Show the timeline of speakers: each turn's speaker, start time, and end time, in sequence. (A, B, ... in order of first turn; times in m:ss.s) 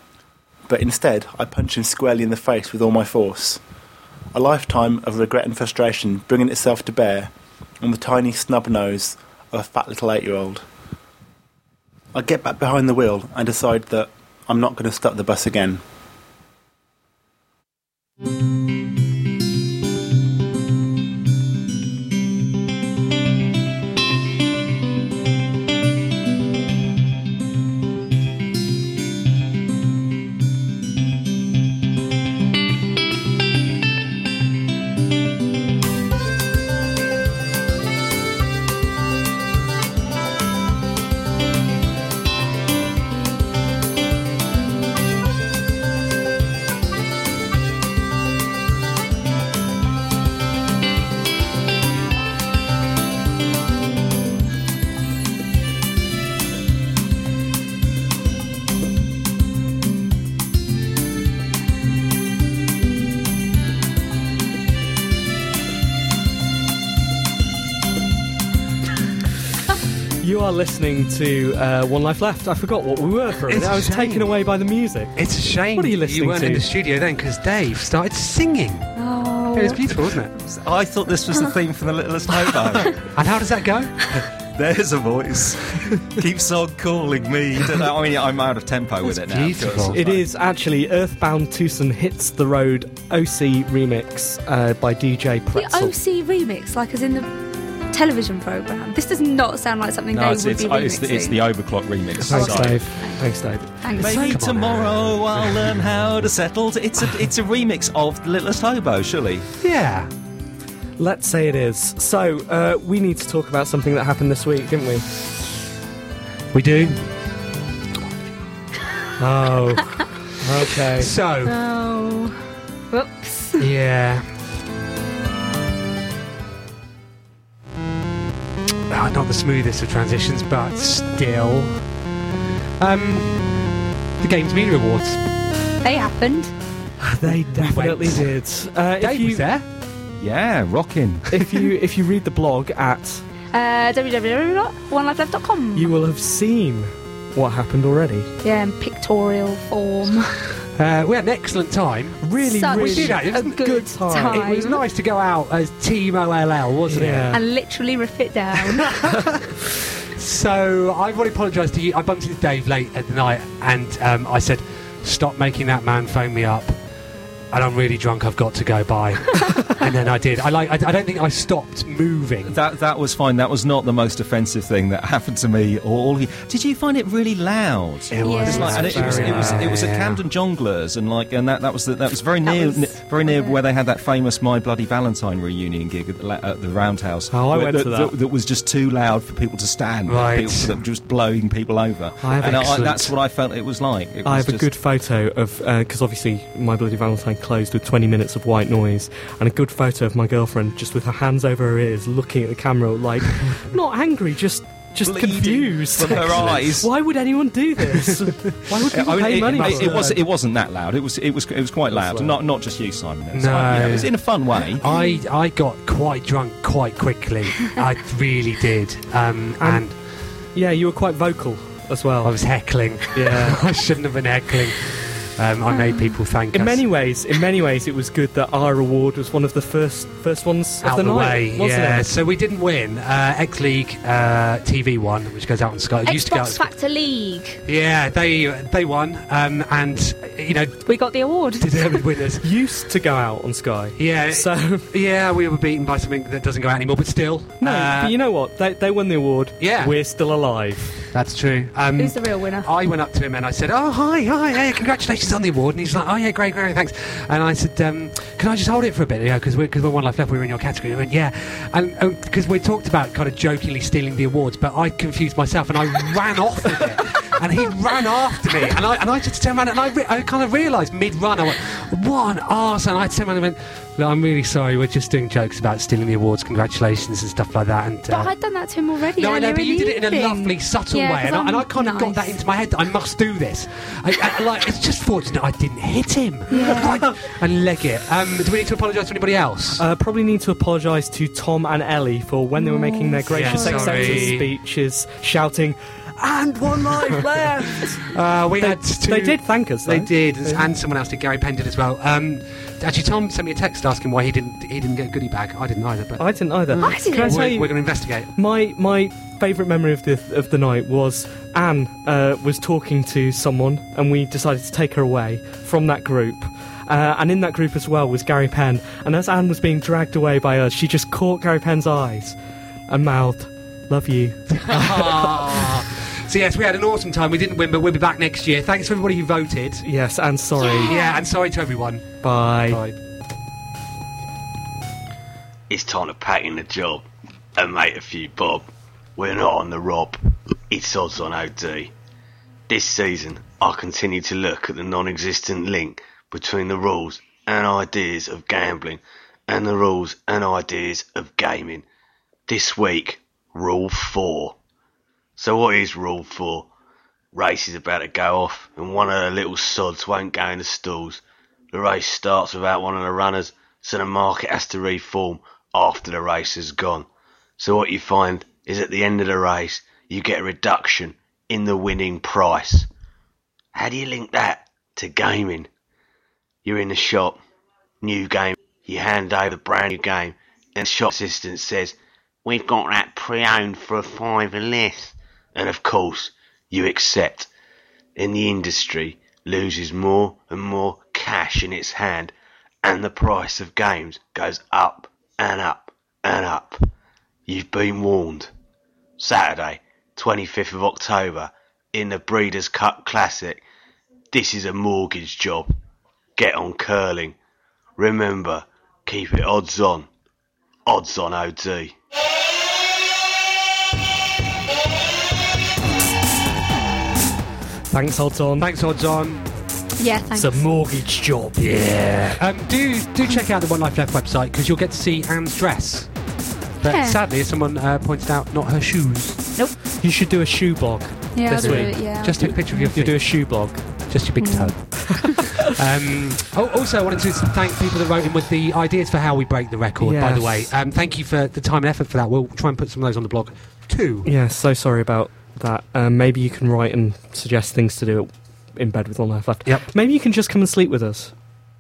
0:00.7-0:03.6 A
0:04.3-0:10.6 A
0:12.1-0:15.8 A
1:10.2-1:16.7 B
1:13.5-1:14.4 C
1:15.2-1:18.9 C
1:19.0-1:19.8 D
1:19.5-1:20.3 C
1:20.4-1:23.1 E
1:23.1-1:24.1 C
1:24.6-1:30.2 E
1:29.0-1:30.0 C
1:29.9-1:35.9 B
1:35.6-1:37.3 D
1:37.9-1:41.4 D
1:40.1-1:42.8 E
1:42.3-1:44.4 B
1:42.3-1:42.8 C
1:42.4-1:43.2 D
1:43.8-1:44.4 D
1:44.0-1:49.5 E
1:44.2-1:45.5 C
1:49.6-1:50.1 C
1:51.0-1:55.1 B
1:56.5-1:57.1 C
1:59.2-2:01.1 B
2:00.6-2:01.6 C
2:01.4-2:02.4 D
2:02.9-2:03.6 D
2:03.6-2:04.3 C
2:08.9-2:11.8 C
2:12.8-2:13.7 C
2:14.2-2:15.2 C
2:15.8-2:16.5 D
2:17.0-2:19.5 B
2:17.3-2:18.3 C
2:19.0-2:19.6 C
2:20.2-2:21.3 E
2:21.3-2:23.2 B
2:23.5-2:26.0 D
2:25.7-2:28.3 B
2:28.4-2:30.3 D
2:30.8-2:37.4 C
2:32.2-2:34.8 B
2:32.4-2:34.8 D
2:36.9-2:37.4 B
2:37.3-2:38.9 D
2:40.1-2:46.7 C
2:47.5-2:52.6 C
2:52.4-3:14.7 E
2:58.1-3:00.2 C
2:58.2-2:58.8 D
2:58.3-2:59.8 B
3:02.4-3:03.6 D
3:07.3-3:08.1 B
3:10.1-3:10.8 C
3:12.2-3:12.8 B
3:12.4-3:13.1 C
3:14.2-3:30.2 B
3:25.0-3:26.9 E
3:26.2-3:26.4 C
3:28.9-3:34.8 E
3:29.5-3:30.2 C
3:31.9-3:32.4 B
3:33.3-3:40.0 C
3:34.8-3:35.2 D
3:39.6-3:39.9 B
3:40.5-3:43.7 B
3:42.2-3:46.9 C
3:45.7-3:46.1 D
3:46.5-3:52.1 B
3:50.8-3:56.7 C
3:56.0-3:57.6 D
3:57.6-4:00.8 C
4:00.8-4:01.7 D
4:01.6-4:02.4 C
4:02.4-4:04.9 B
4:04.0-4:08.2 C
4:07.6-4:11.1 B
4:09.6-4:10.0 C
4:11.1-4:38.3 C
4:12.0-4:12.7 D
4:38.1-4:42.4 D
4:39.2-4:49.8 C
4:46.5-4:47.0 D
4:46.6-4:47.1 B
4:49.8-5:00.7 B
4:52.6-4:54.4 D
4:53.3-4:54.5 C
4:56.7-4:57.3 C
4:58.0-5:08.3 C
5:06.2-5:22.4 B
5:06.8-5:07.5 D
5:22.9-5:25.4 B
5:24.5-5:29.9 C
5:29.8-5:31.0 B
5:30.6-5:31.2 D
5:30.7-5:33.0 C
5:32.2-5:32.8 B
5:35.7-5:37.0 F
5:37.6-5:40.2 F
5:40.7-5:41.9 F
5:42.7-5:51.8 F
5:52.5-5:54.6 F
5:55.4-5:56.7 F
5:57.3-6:07.1 F
6:07.6-6:12.9 F
6:13.7-6:15.7 F
6:16.6-6:17.4 F
6:18.0-6:27.5 F
6:28.2-6:36.8 F
6:37.5-6:38.5 F
6:39.2-6:43.6 F
6:44.3-6:45.7 F
6:46.4-6:47.4 F
6:48.0-6:50.1 F
6:50.9-6:51.9 F
6:57.9-6:58.7 B
6:58.6-6:59.4 C
7:00.0-7:00.6 D
7:00.3-7:02.0 B
7:01.6-7:06.1 C
7:06.8-7:09.4 C
7:06.9-7:07.2 D
7:10.0-7:14.0 B
7:11.3-7:12.6 D
7:11.6-7:15.0 C
7:14.4-7:15.4 D
7:15.0-7:15.7 B
7:15.8-7:24.3 C
7:20.0-7:20.7 B
7:24.2-7:31.3 B